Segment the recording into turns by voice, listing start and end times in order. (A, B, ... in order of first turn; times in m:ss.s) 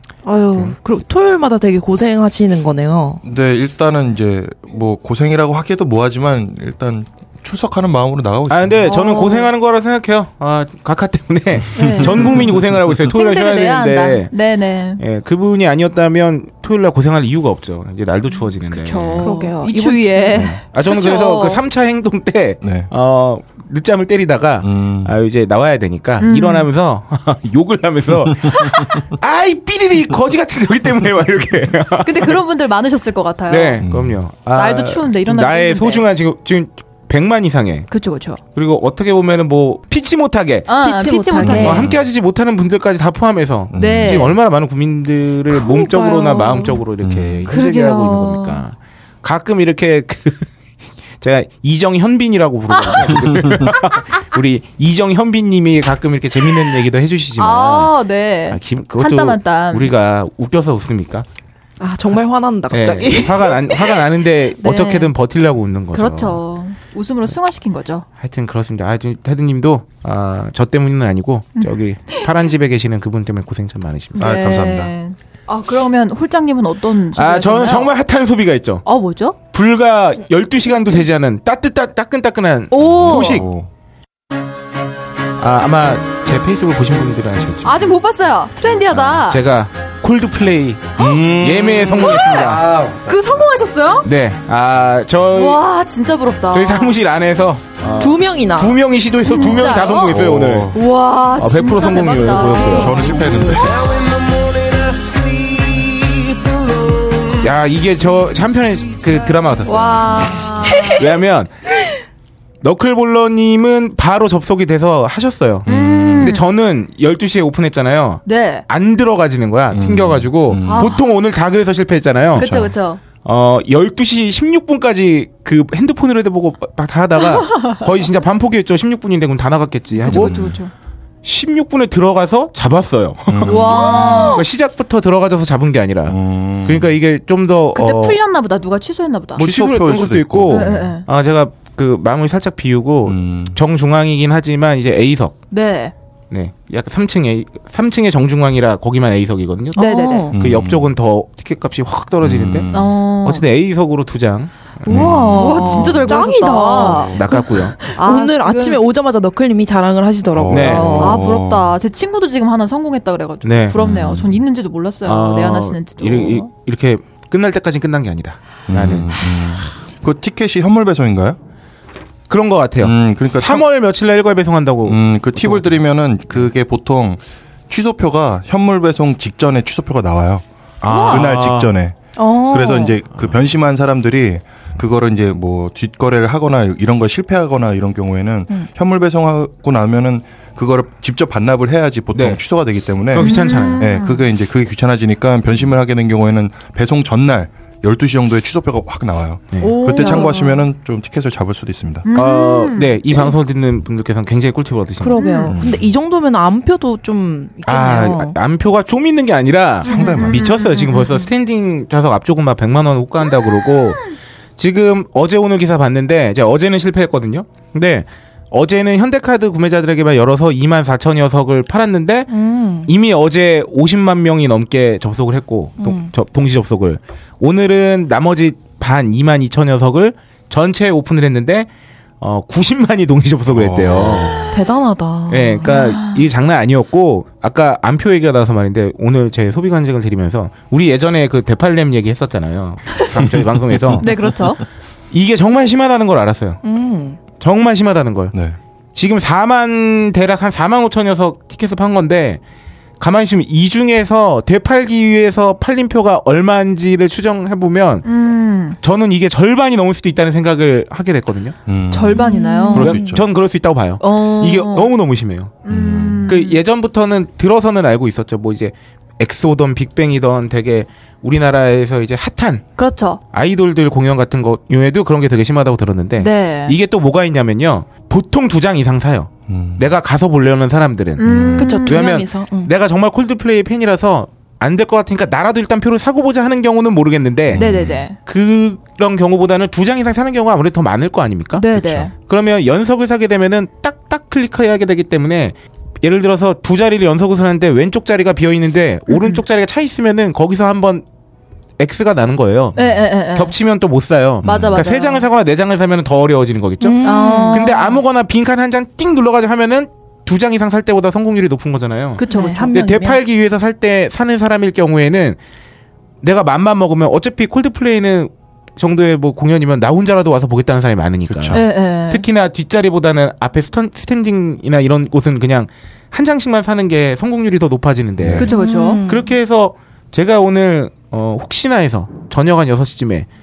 0:00.2-0:03.2 A
0:03.2-0:08.9 B
0:08.5-0:14.3 C
0:08.8-0:09.5 D
0:11.8-0:12.5 D
0:11.8-0:12.5 B
0:13.1-0:15.0 D
0:15.0-0:19.3 C
0:18.7-0:21.6 D
0:19.2-0:20.4 A
0:20.3-0:32.4 C
0:22.6-0:22.9 B
0:24.6-0:25.1 B
0:26.2-0:26.7 D
0:32.0-0:33.8 D
0:33.5-0:37.9 C
0:33.8-0:34.2 B
0:34.5-0:36.0 D
0:37.9-0:38.4 D
0:38.6-0:40.7 C
0:40.7-0:41.8 D
0:40.8-0:41.9 A
0:41.4-0:50.5 C
0:41.4-0:42.0 B
0:43.7-0:44.4 B
0:43.8-0:44.3 D
0:45.5-0:46.8 A
0:47.0-0:47.5 B
0:47.5-0:48.6 D
0:51.2-0:58.0 C
0:53.3-0:53.7 B
0:57.4-0:59.9 D
0:58.5-1:01.3 C
1:01.8-1:04.0 A
1:02.7-1:06.4 C
1:04.6-1:05.1 D
1:05.9-1:08.0 D
1:08.2-1:14.3 C
1:11.6-1:12.2 D
1:14.2-1:17.9 D
1:14.2-1:14.9 B
1:17.2-1:18.8 C
1:18.8-1:19.4 D
1:19.5-1:23.5 C
1:22.7-1:23.4 D
1:22.9-1:23.7 B
1:25.4-1:27.9 C
1:27.6-1:29.4 D
1:28.9-1:29.2 B
1:29.2-1:32.6 C
1:31.0-1:33.6 B
1:32.0-1:32.5 D
1:33.1-1:34.1 D
1:34.0-1:35.6 C
1:35.3-1:37.0 D
1:36.5-1:40.8 C
1:38.0-1:38.8 A
1:39.2-1:40.1 D
1:40.1-1:40.8 B
1:40.7-1:43.6 D
1:41.4-1:43.7 C
1:42.6-1:43.9 B
1:45.0-1:45.9 C
1:47.3-1:51.5 C
1:49.6-1:51.0 D
1:52.6-2:02.5 C
1:55.7-1:56.4 B
1:55.7-1:56.4 D
1:58.3-1:58.6 D
1:59.7-2:01.0 B
2:00.6-2:01.0 D
2:02.3-2:02.7 B
2:02.4-2:03.0 D
2:03.2-2:10.4 C
2:07.4-2:07.8 D
2:10.0-2:10.7 D
2:10.0-2:10.6 B
2:11.2-2:18.2 C
2:13.3-2:14.4 B
2:13.5-2:14.4 D
2:16.1-2:17.0 B
2:17.7-2:19.5 D
2:19.4-2:25.4 C
2:19.4-2:21.0 B
2:20.5-2:21.0 D
2:23.0-2:23.6 B
2:25.5-2:25.9 D
2:26.3-2:32.7 C
2:29.8-2:30.3 D
2:29.8-2:30.4 A
2:30.3-2:30.9 B
2:32.2-2:33.0 B
2:32.7-2:33.4 D
2:33.2-2:35.3 C
2:34.9-2:36.0 B
2:34.9-2:38.8 D
2:34.9-2:41.2 A
2:36.7-2:37.8 C
2:36.8-2:37.2 B
2:40.3-2:41.7 B
2:40.5-2:41.0 C
2:41.0-2:46.5 D
2:43.4-2:43.8 C
2:43.7-2:44.4 B
2:45.0-2:49.7 C
2:48.7-2:51.4 B
2:52.3-2:55.8 C
2:52.8-2:53.6 B
2:54.8-3:00.4 B
3:00.8-3:01.7 C
3:00.9-3:01.2 D
3:01.0-3:22.1 B
3:02.2-3:03.0 A
3:12.1-3:12.4 C
3:13.1-3:13.9 C
3:13.2-3:14.2 D
3:19.6-3:20.5 D
3:19.9-3:20.5 A
3:22.1-3:23.0 D
3:22.1-3:25.2 C
3:25.0-3:28.4 A
3:25.2-3:25.6 D
3:25.5-3:25.9 B
3:27.7-3:51.7 C
3:29.8-3:30.5 B
3:29.8-3:31.3 D
3:42.3-3:42.9 A
3:45.8-3:46.1 A
3:52.2-3:54.4 C
3:53.5-3:54.6 B
3:54.5-3:55.8 A
3:55.3-4:04.1 C
3:55.7-3:56.2 D
4:03.2-4:04.0 B
4:04.0-4:04.6 D
4:05.1-4:06.6 C
4:06.6-4:07.2 A
4:07.4-4:08.4 C
4:09.0-4:12.4 C
4:13.0-4:18.0 C
4:18.0-4:18.8 D
4:18.8-4:21.6 C
4:21.7-4:23.2 B
4:21.9-4:23.0 D
4:22.1-4:23.2 A
4:22.7-4:32.6 C
4:24.0-4:24.9 D
4:25.6-4:26.6 D
4:25.7-4:26.3 B
4:32.8-4:33.2 D
4:33.3-4:47.6 C
4:36.2-4:36.8 D
4:39.5-4:39.9 B
4:41.2-4:42.0 D
4:41.2-4:41.8 B
4:41.6-4:42.7 A
4:47.5-4:48.1 B
4:47.6-4:48.2 D
4:48.2-5:01.0 C
4:51.6-4:52.1 D
4:51.8-4:52.1 B
4:59.1-4:59.4 D
5:01.8-5:02.8 C
5:02.8-5:03.5 D
5:03.4-5:15.4 C
5:04.4-5:04.8 B
5:04.4-5:05.3 D
5:06.8-5:07.6 A
5:07.0-5:08.0 D
5:12.2-5:12.7 D
5:12.3-5:13.2 A
5:16.2-5:28.5 C
5:21.3-5:21.6 B
5:21.5-5:22.2 D
5:28.2-5:28.5 B
5:28.4-5:29.0 D
5:28.4-5:29.3 A
5:29.0-5:33.3 C